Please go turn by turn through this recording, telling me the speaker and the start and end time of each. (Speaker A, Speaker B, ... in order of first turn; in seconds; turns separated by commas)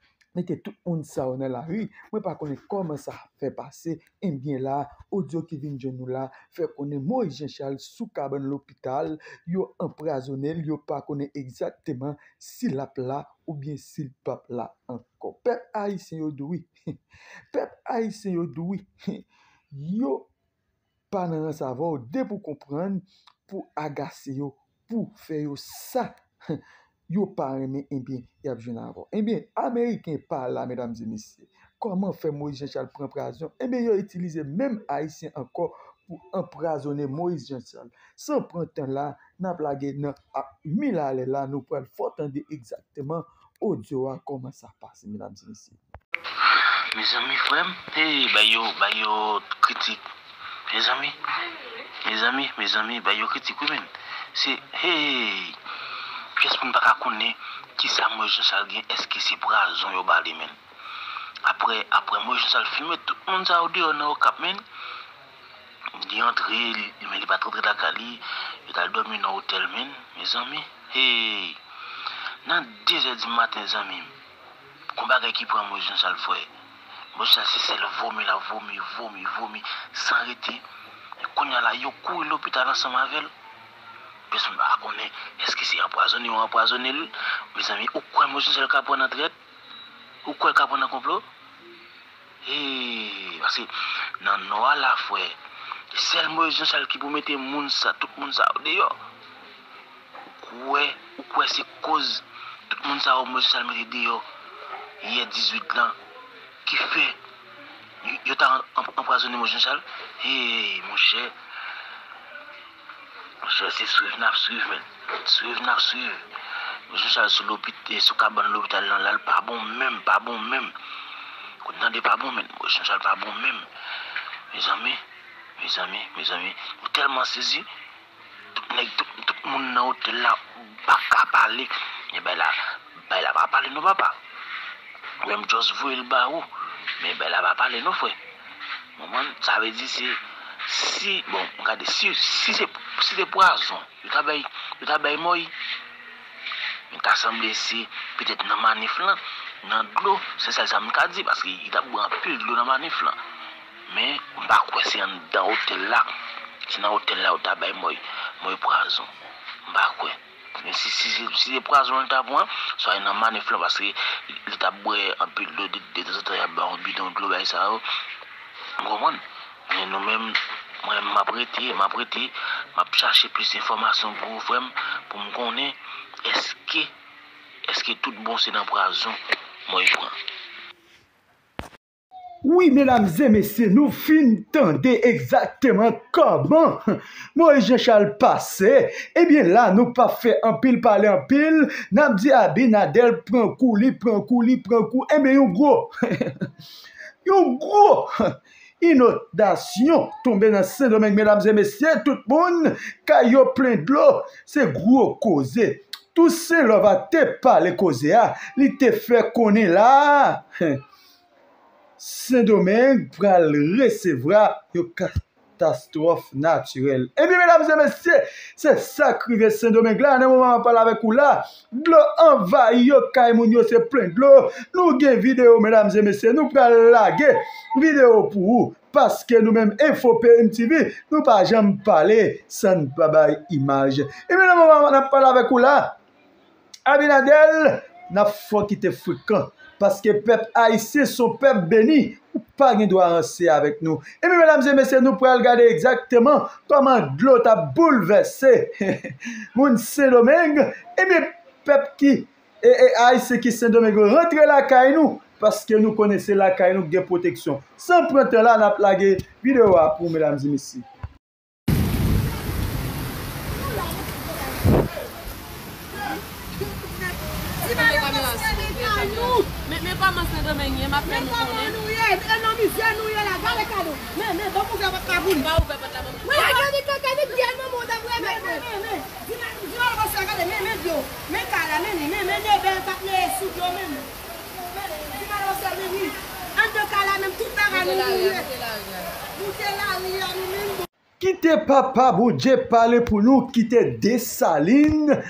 Speaker A: 0.3-16.7, Speaker A: 17.5-20.3, Speaker A: 21.1-45.8, Speaker B: 46.5-50.0, Speaker B: 50.7-51.1, Speaker B: 52.0-55.5, Speaker B: 56.4-60.5, Speaker B: 61.4-64.6, Speaker B: 66.0-71.6, Speaker B: 72.4-74.1, Speaker B: 75.0-76.5, Speaker B: 77.1-80.6, Speaker B: 81.3-83.3, Speaker B: 84.3-89.3, Speaker B: 90.2-91.2, Speaker B: 92.4-93.7, Speaker B: 94.2-95.3, Speaker B: 95.9-98.9, Speaker B: 100.4-104.2, Speaker B: 105.0-106.0, Speaker B: 106.7-107.2, Speaker B: 108.0-111.3, Speaker B: 113.5-116.2, Speaker B: 116.9-120.7, Speaker B: 121.6-123.6, Speaker B: 124.5-125.0, Speaker B: 125.6-127.7, Speaker B: 128.7-132.6, Speaker B: 133.1-134.2, Speaker B: 135.2-136.4, Speaker B: 137.0-138.2, Speaker B: 139.0-145.5, Speaker B: 146.9-153.2, Speaker B: 153.9-156.1, Speaker B: 156.7-159.1, Speaker B: 159.7-167.8, Speaker B: 168.8-176.9, Speaker B: 177.7-179.2, Speaker B: 179.7-180.1, Speaker A: 182.4-186.8, Speaker A: 187.3-196.3, Speaker A: 197.2-198.1, Speaker A: 198.8-210.4, Speaker A: 212.0-235.9, Speaker A: 236.8-260.8, Speaker C: 266.6-269.5, Speaker D: 267.6-271.8, Speaker C: 271.1-275.5, Speaker D: 275.4-276.8, Speaker C: 276.2-284.1, Speaker D: 278.2-278.5, Speaker C: 284.9-288.5, Speaker D: 287.8-289.1, Speaker C: 289.3-290.9, Speaker A: 291.2-295.1